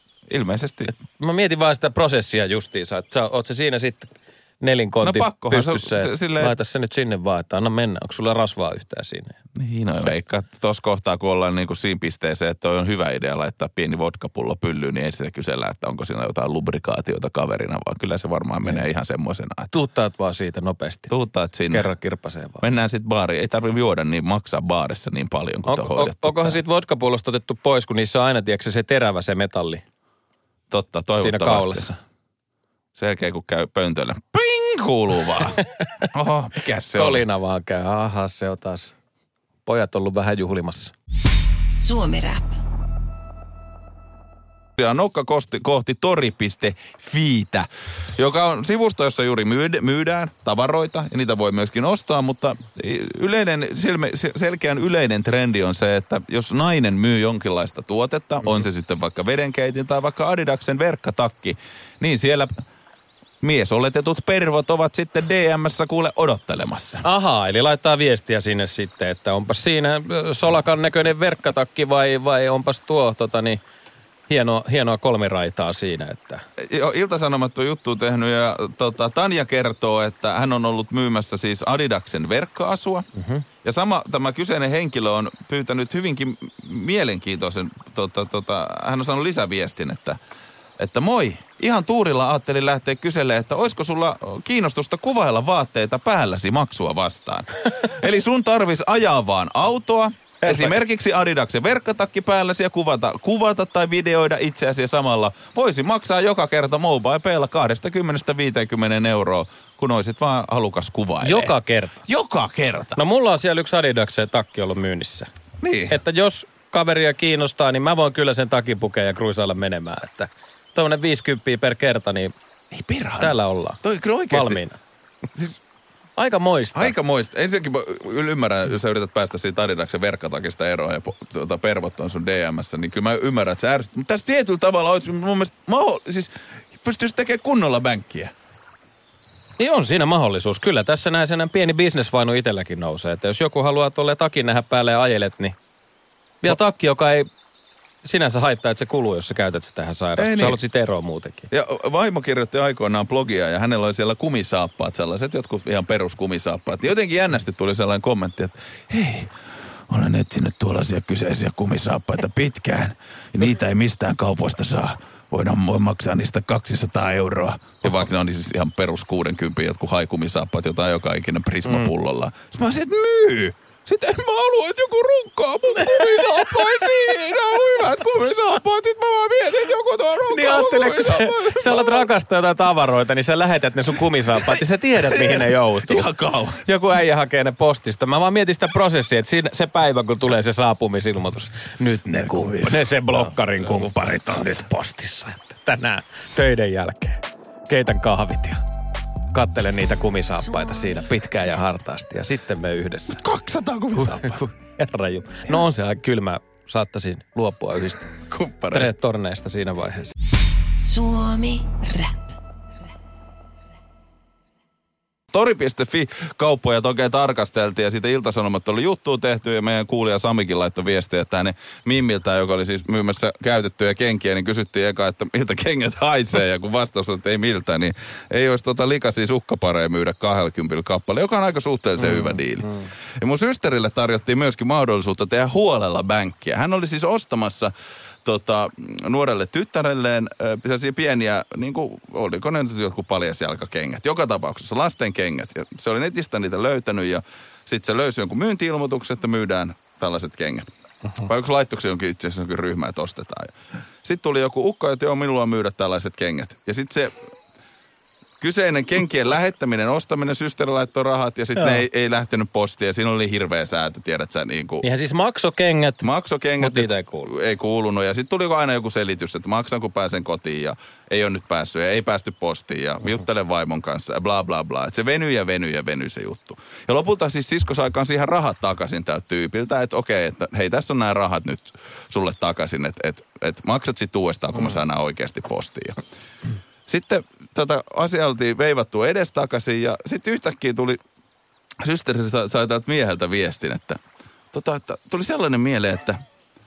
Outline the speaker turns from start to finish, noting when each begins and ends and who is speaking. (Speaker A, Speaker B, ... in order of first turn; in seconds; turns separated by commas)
Speaker A: 0.3-0.9, Speaker B: 1.2-9.3, Speaker A: 5.0-6.5, Speaker A: 9.6-19.7, Speaker B: 19.7-21.1, Speaker A: 21.1-21.9, Speaker B: 21.7-22.6, Speaker A: 22.6-26.6, Speaker B: 25.7-29.8, Speaker A: 30.7-31.9, Speaker B: 31.2-31.9, Speaker A: 32.9-35.6, Speaker A: 36.1-37.2, Speaker B: 36.9-38.9, Speaker B: 39.6-40.9, Speaker C: 41.8-42.5, Speaker A: 44.8-62.6, Speaker A: 63.4-67.0, Speaker B: 67.0-73.6, Speaker B: 74.3-76.4, Speaker A: 76.6-83.0, Speaker B: 83.1-83.4, Speaker A: 83.6-90.2, Speaker A: 90.8-111.5, Speaker B: 100.4-100.8, Speaker B: 111.2-112.0, Speaker A: 112.0-113.0, Speaker B: 113.0-115.3, Speaker A: 115.6-116.0, Speaker B: 115.9-122.3, Speaker A: 122.7-124.6, Speaker B: 123.2-123.8, Speaker B: 124.3-124.8, Speaker B: 126.2-126.9, Speaker A: 126.7-138.3, Speaker B: 139.6-145.6, Speaker B: 146.4-147.3, Speaker B: 148.0-151.5, Speaker A: 150.2-150.6, Speaker A: 151.5-159.3, Speaker A: 159.9-182.1, Speaker B: 171.7-171.9, Speaker B: 175.8-176.9, Speaker B: 180.3-186.0, Speaker A: 184.4-186.6, Speaker B: 186.6-198.6, Speaker A: 192.2-193.9, Speaker B: 199.3-203.2, Speaker A: 203.1-204.4, Speaker B: 203.9-208.1, Speaker A: 208.2-208.9, Speaker B: 208.7-210.1, Speaker C: 210.8-212.3, Speaker A: 215.3-237.7, Speaker B: 232.0-232.9, Speaker A: 238.2-257.2, Speaker A: 258.4-264.8, Speaker B: 261.6-261.8, Speaker B: 264.8-266.0, Speaker A: 266.0-286.0, Speaker B: 266.6-267.3, Speaker A: 286.9-291.0, Speaker A: 291.8-294.0, Speaker A: 294.5-296.2